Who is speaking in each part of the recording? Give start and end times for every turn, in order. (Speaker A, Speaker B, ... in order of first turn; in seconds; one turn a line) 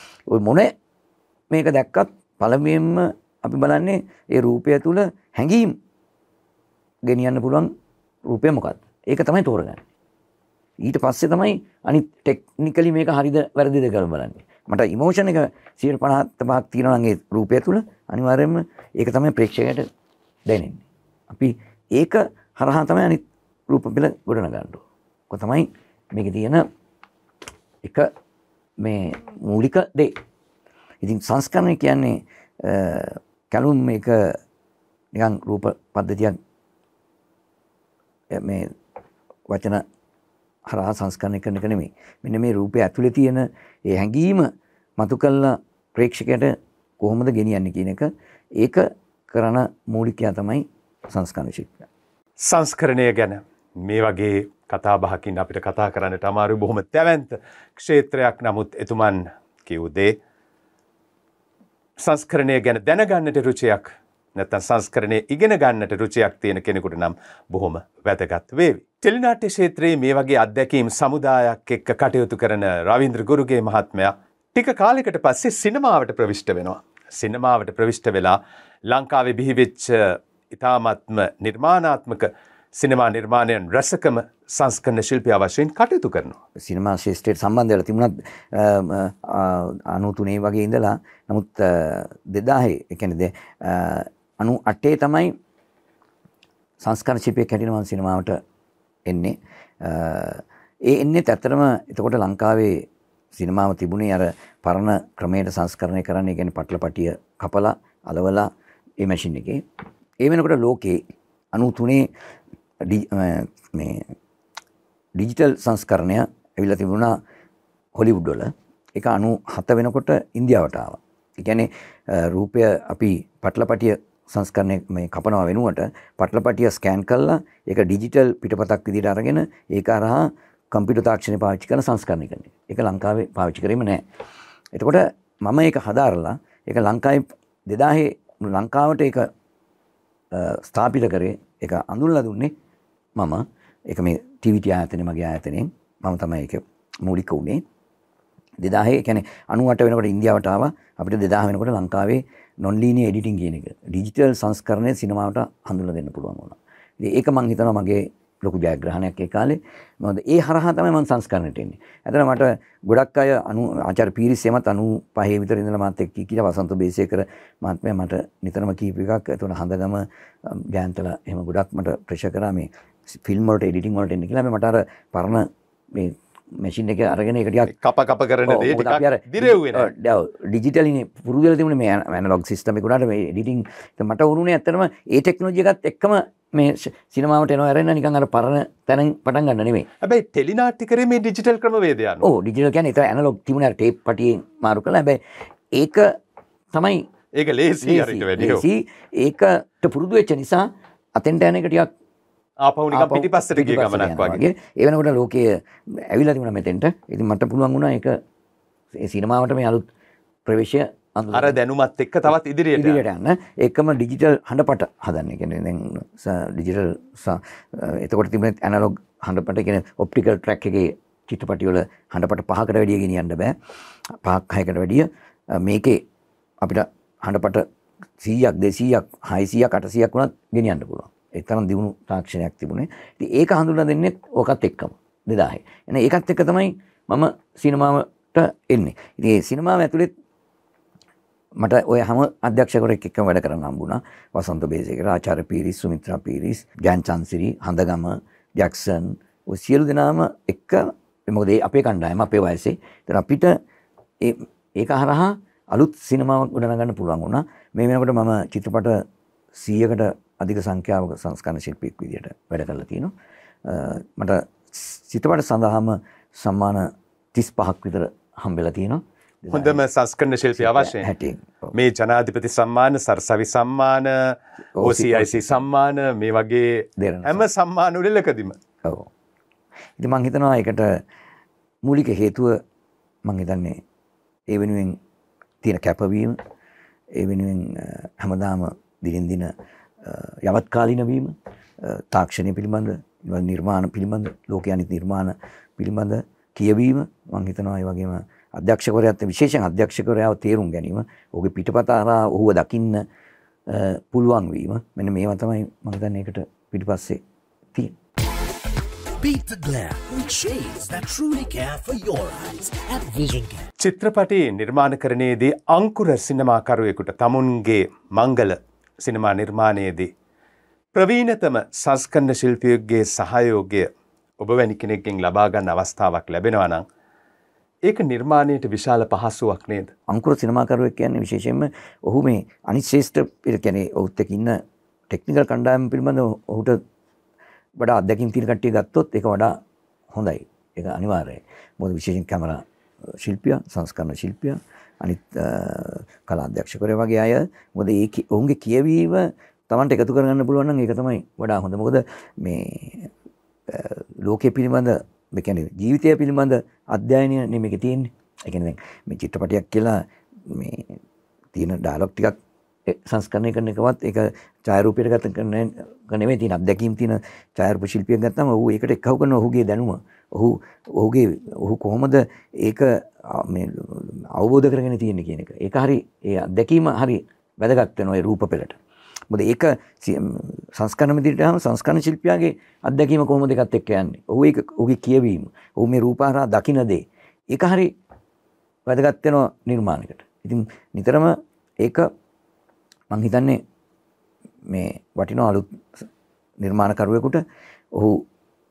Speaker A: 0.3-0.7
Speaker A: 1.5-5.8
Speaker A: 7.0-7.7
Speaker A: 8.3-9.8
Speaker A: 10.8-19.9
Speaker A: 20.5-26.6
Speaker A: 27.8-28.1
Speaker A: 28.8-30.1
Speaker A: 31.0-34.4
Speaker A: 35.1-36.4
Speaker A: 38.3-38.7
Speaker A: 39.5-39.8
Speaker A: 40.7-44.5
Speaker A: 45.0-51.8
Speaker B: 52.4-60.1
Speaker B: 62.0-78.4
Speaker B: 78.9-86.4
Speaker A: 86.6-95.3
Speaker A: 96.8-98.4
Speaker A: 99.1-102.8
Speaker A: 103.4-108.5
Speaker A: 109.0-109.6
Speaker A: 110.2-111.0
Speaker A: 111.5-112.1
Speaker A: 112.8-114.0
Speaker A: 115.2-117.2
Speaker A: 118.0-134.0
Speaker A: 134.8-139.3
Speaker A: 140.3-142.5
Speaker A: 143.2-147.6
Speaker A: 148.6-177.7
Speaker B: 177.7-179.9
Speaker A: 178.5-189.9
Speaker B: 190.0-192.3
Speaker A: 192.2-195.2
Speaker A: 195.8-196.1
Speaker A: 196.7-197.0
Speaker B: 197.4-198.6
Speaker A: 197.8-200.7
Speaker A: 201.2-201.9
Speaker B: 202.6-204.4
Speaker A: 202.9-208.1
Speaker A: 209.0-209.9
Speaker A: 210.5-211.6
Speaker B: 211.3-213.0
Speaker A: 212.8-223.6
Speaker A: 224.2-226.0
Speaker A: 226.6-227.6
Speaker A: 228.2-240.1
Speaker A: 241.6-253.6
Speaker A: 254.2-259.0
Speaker A: 259.6-263.1
Speaker A: 263.6-269.8
Speaker B: 269.5-271.1
Speaker A: 270.6-271.8
Speaker B: 271.7-278.6
Speaker A: 274.8-275.6
Speaker A: 277.0-277.5
Speaker A: 278.8-279.1
Speaker A: 280.0-281.0
Speaker A: 281.8-282.6
Speaker A: 283.2-283.8
Speaker A: 284.5-285.0
Speaker A: 285.6-286.4
Speaker A: 287.1-289.5
Speaker A: 290.0-303.0
Speaker A: 303.7-307.2
Speaker C: 309.2-313.7
Speaker B: 313.8-320.1
Speaker B: 320.9-326.9
Speaker B: 327.9-329.9
Speaker A: 330.1-334.6
Speaker A: 335.1-336.8
Speaker A: 337.8-339.6
Speaker A: 340.1-342.6
Speaker A: 343.2-353.1
Speaker A: 353.7-361.0
Speaker A: 361.5-362.4
Speaker A: 362.9-378.8
Speaker A: 379.3-387.9
Speaker A: 388.9-392.0
Speaker A: 393.1-393.6
Speaker A: 394.7-395.8
Speaker A: 396.6-397.4
Speaker A: 397.9-398.2